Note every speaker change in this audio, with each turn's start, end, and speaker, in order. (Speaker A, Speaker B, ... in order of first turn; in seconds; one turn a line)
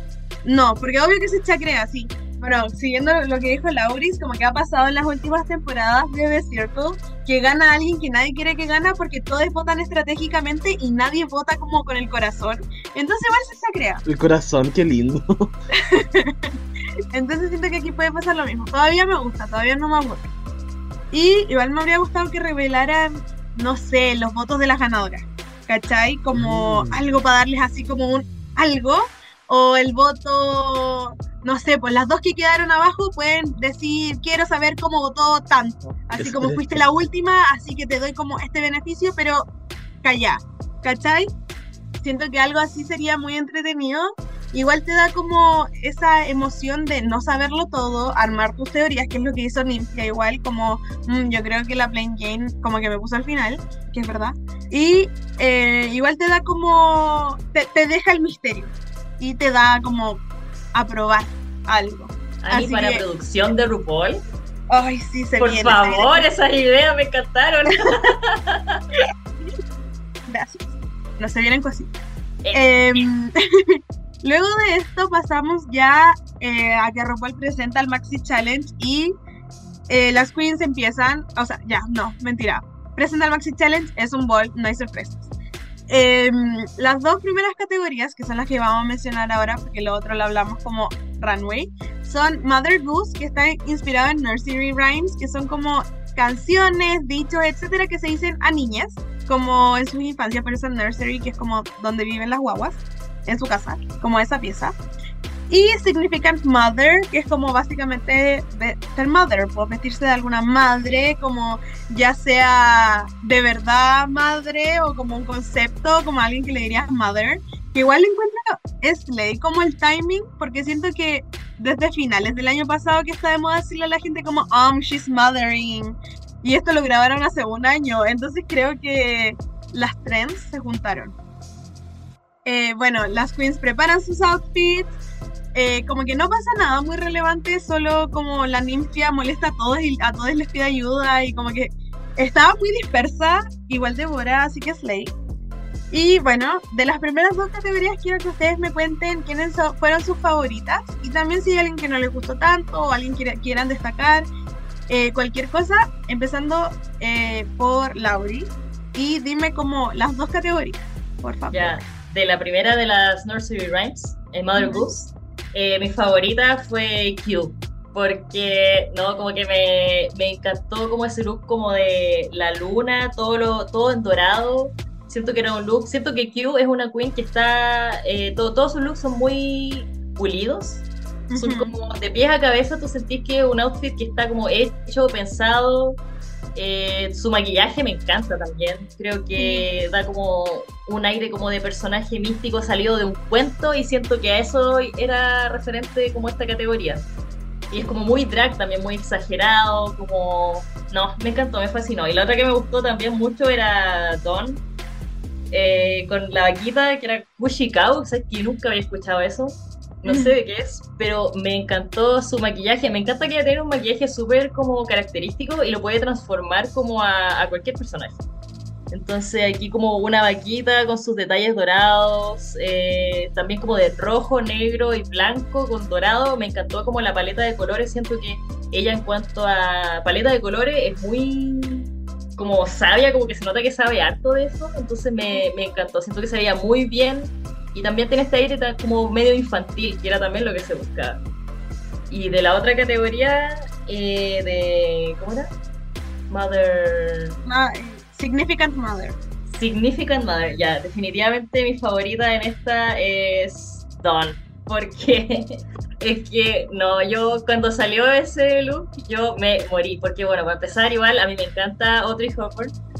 Speaker A: 0.4-14.0
Speaker B: 14.0-15.5
Speaker A: 15.9-16.4
Speaker A: 17.1-20.3
Speaker A: 21.1-39.5
Speaker B: 26.3-27.0
Speaker B: 36.2-37.0
Speaker A: 40.0-41.3
Speaker A: 42.0-63.0
Speaker C: 62.4-64.2
Speaker A: 64.7-66.2
Speaker C: 65.4-68.8
Speaker A: 70.3-71.9
Speaker C: 72.4-72.7
Speaker A: 72.5-79.1
Speaker A: 79.9-85.3
Speaker A: 85.9-104.8
Speaker A: 105.5-131.1
Speaker A: 132.4-134.9
Speaker A: 135.5-145.1
Speaker A: 145.9-154.2
Speaker A: 154.9-161.8
Speaker C: 161.5-186.0
Speaker A: 164.6-164.9
Speaker A: 181.3-181.7
Speaker C: 186.5-197.1
Speaker A: 189.3-189.7
Speaker C: 197.7-204.6
Speaker C: 205.5-218.2
Speaker A: 210.0-210.3
Speaker C: 218.9-241.2
Speaker C: 242.1-245.5
Speaker C: 246.3-247.4
Speaker A: 247.4-249.2
Speaker C: 249.5-262.7